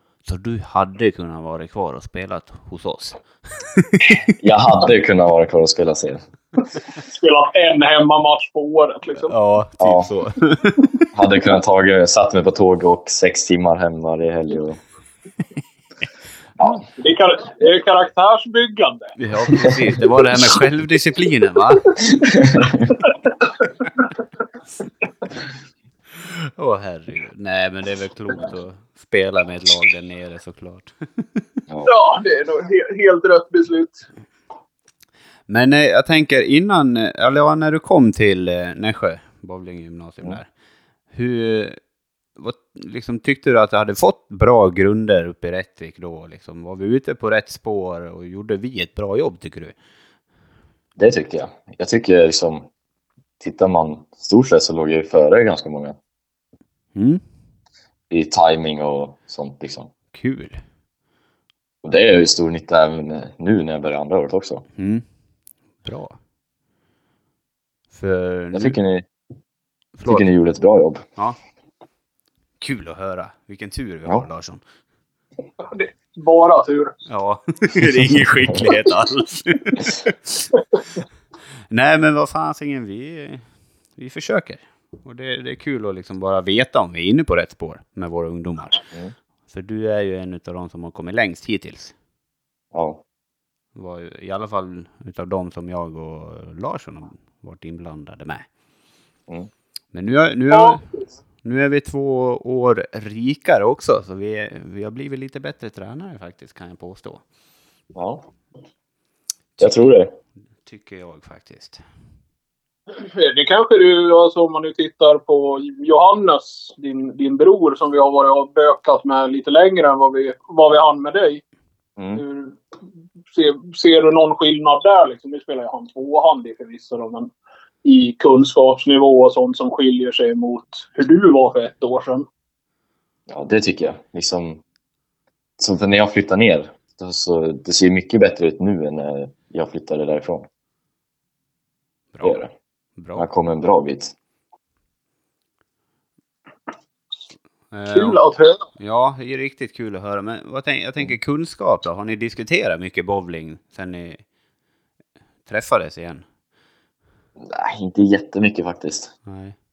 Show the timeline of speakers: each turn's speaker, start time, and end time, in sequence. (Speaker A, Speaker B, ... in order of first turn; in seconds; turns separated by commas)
Speaker A: 0.3-4.1, Speaker B: 4.3-6.2, Speaker C: 7.1-9.4, Speaker A: 9.2-11.0, Speaker B: 9.8-10.1, Speaker B: 11.1-14.8, Speaker B: 16.6-16.8, Speaker C: 17.0-19.1, Speaker A: 19.2-22.0, Speaker B: 22.1-22.9, Speaker A: 26.2-31.4, Speaker C: 31.9-34.0, Speaker A: 35.5-40.5, Speaker A: 41.1-41.8, Speaker A: 42.4-49.8, Speaker B: 51.0-52.7, Speaker B: 53.4-56.0, Speaker A: 57.0-57.2, Speaker B: 58.1-59.9, Speaker A: 60.1-60.6, Speaker B: 61.8-64.7, Speaker A: 64.8-65.0, Speaker A: 65.8-66.2, Speaker A: 67.9-68.8, Speaker B: 68.5-69.1, Speaker A: 70.0-70.3, Speaker B: 70.1-71.0, Speaker A: 72.6-74.6, Speaker C: 75.6-77.0, Speaker A: 77.1-80.3, Speaker A: 81.7-83.4, Speaker A: 84.0-88.8, Speaker A: 89.5-91.9, Speaker B: 92.7-93.0, Speaker A: 93.8-98.5, Speaker A: 99.9-100.9, Speaker A: 101.4-107.2, Speaker B: 108.0-108.2, Speaker A: 109.6-109.8, Speaker B: 109.6-110.1, Speaker A: 110.6-111.8, Speaker C: 112.9-121.4, Speaker B: 122.0-122.2, Speaker C: 122.2-122.6, Speaker C: 123.3-127.3, Speaker C: 127.8-132.3, Speaker B: 133.3-134.6, Speaker B: 135.6-140.5, Speaker A: 142.1-142.4, Speaker B: 142.2-142.5, Speaker A: 143.0-143.3, Speaker B: 143.2-144.1, Speaker A: 147.7-148.2, Speaker C: 147.9-148.7, Speaker A: 148.8-154.2, Speaker A: 155.5-156.2, Speaker B: 157.4-159.1, Speaker A: 159.3-159.6